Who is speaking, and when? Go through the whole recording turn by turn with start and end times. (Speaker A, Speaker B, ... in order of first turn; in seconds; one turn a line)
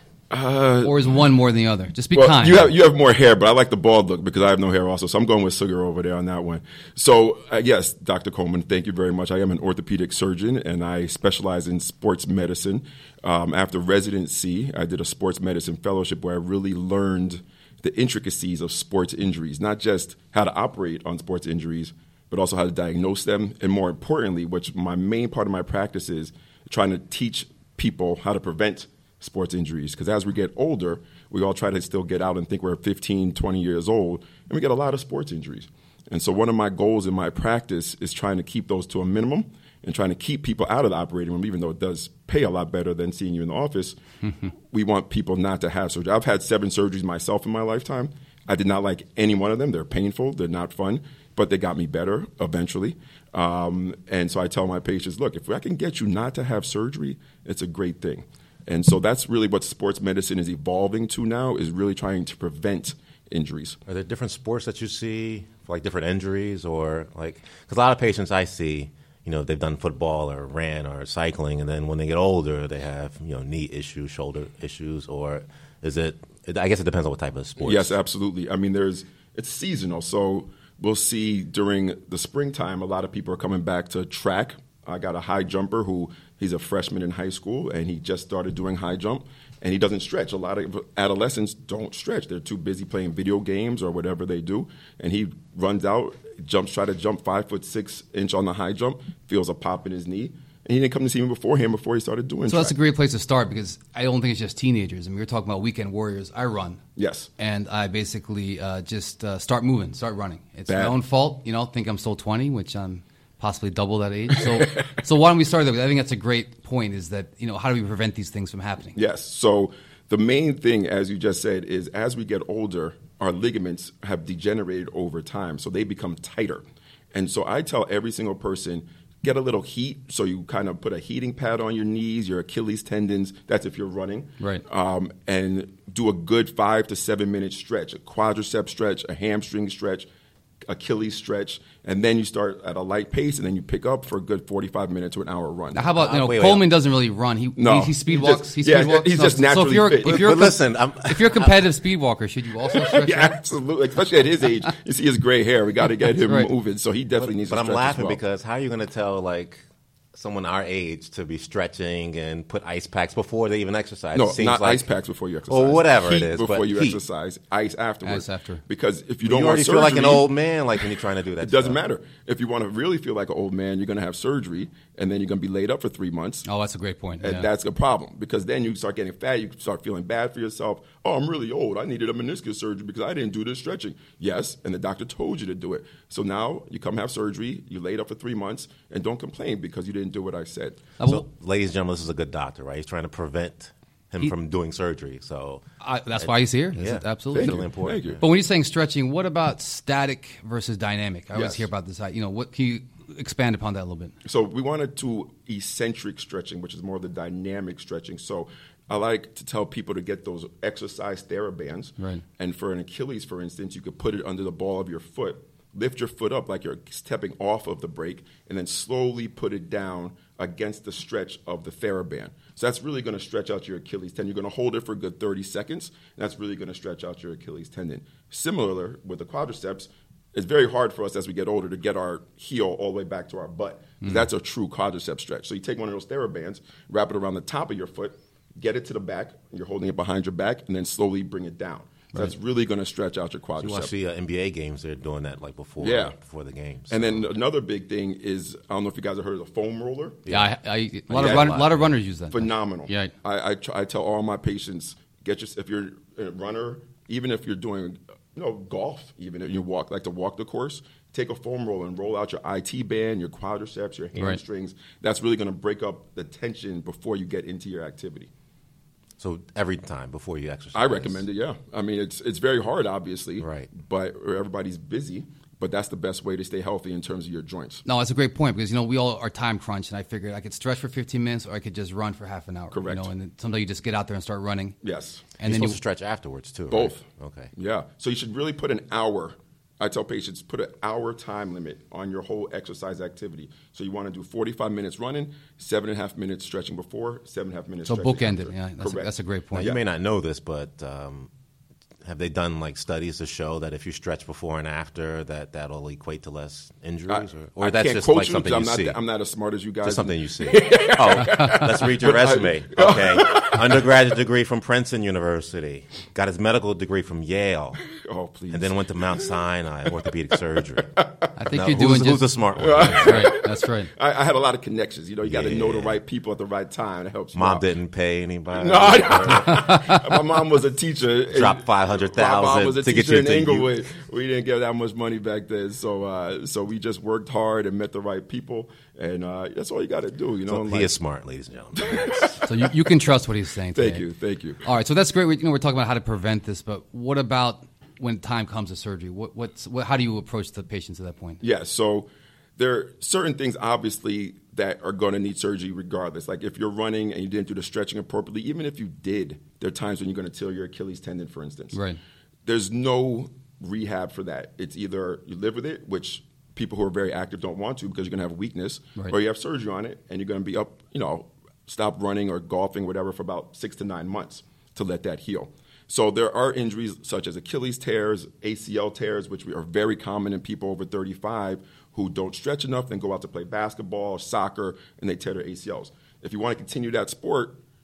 Speaker A: 0.3-1.1
Speaker B: 0.8-2.7
Speaker A: 2.1-44.0
Speaker B: 44.2-44.5
Speaker A: 44.6-63.8
Speaker C: 63.9-77.9
Speaker A: 77.6-102.7
Speaker B: 102.5-106.8
Speaker A: 107.0-107.3
Speaker B: 107.4-119.0
Speaker A: 110.7-111.0
Speaker A: 114.5-114.8
Speaker A: 118.9-140.1
Speaker A: 140.7-145.9
Speaker B: 145.7-153.3
Speaker C: 145.9-146.7
Speaker A: 147.6-150.5
Speaker C: 150.0-151.6
Speaker A: 152.7-158.2
Speaker B: 156.2-156.5
Speaker C: 157.2-159.6
Speaker C: 160.1-164.9
Speaker A: 164.1-170.8
Speaker C: 165.5-167.0
Speaker B: 168.0-168.6
Speaker C: 169.2-171.8
Speaker A: 171.4-176.4
Speaker B: 176.4-177.5
Speaker A: 177.2-190.8
Speaker B: 191.0-191.2
Speaker C: 191.0-195.6
Speaker B: 195.8-197.7
Speaker C: 196.2-198.2
Speaker A: 197.3-198.2
Speaker B: 198.2-204.1
Speaker A: 201.3-201.7
Speaker A: 204.2-243.9
Speaker B: 234.0-234.3
Speaker C: 243.6-247.2
Speaker A: 245.8-246.2
Speaker A: 246.9-250.3
Speaker C: 250.2-250.5
Speaker B: 250.3-253.1
Speaker C: 251.1-251.8
Speaker A: 251.1-251.6
Speaker A: 252.3-268.3
Speaker C: 269.2-271.2
Speaker A: 270.7-277.8
Speaker C: 273.4-273.7
Speaker B: 277.9-284.8
Speaker A: 282.7-283.1
Speaker A: 284.8-285.3
Speaker B: 285.4-285.8
Speaker C: 285.4-287.5
Speaker A: 286.7-287.0
Speaker A: 287.5-299.8
Speaker B: 297.9-299.7
Speaker C: 299.5-301.3
Speaker C: 302.0-309.0
Speaker A: 307.1-313.9
Speaker C: 309.8-317.8
Speaker A: 317.9-319.4
Speaker C: 318.5-320.9
Speaker A: 320.9-321.3
Speaker B: 321.4-322.3
Speaker C: 321.5-323.3
Speaker A: 322.6-327.6
Speaker B: 322.9-323.9
Speaker C: 325.2-326.0
Speaker C: 327.3-329.7
Speaker A: 328.5-340.9
Speaker B: 329.4-330.1
Speaker C: 331.3-333.8
Speaker C: 340.5-342.3
Speaker A: 341.8-342.7
Speaker B: 342.4-344.0
Speaker A: 343.7-344.6
Speaker B: 344.6-351.4
Speaker A: 351.4-361.8
Speaker B: 361.7-362.0
Speaker A: 362.4-387.6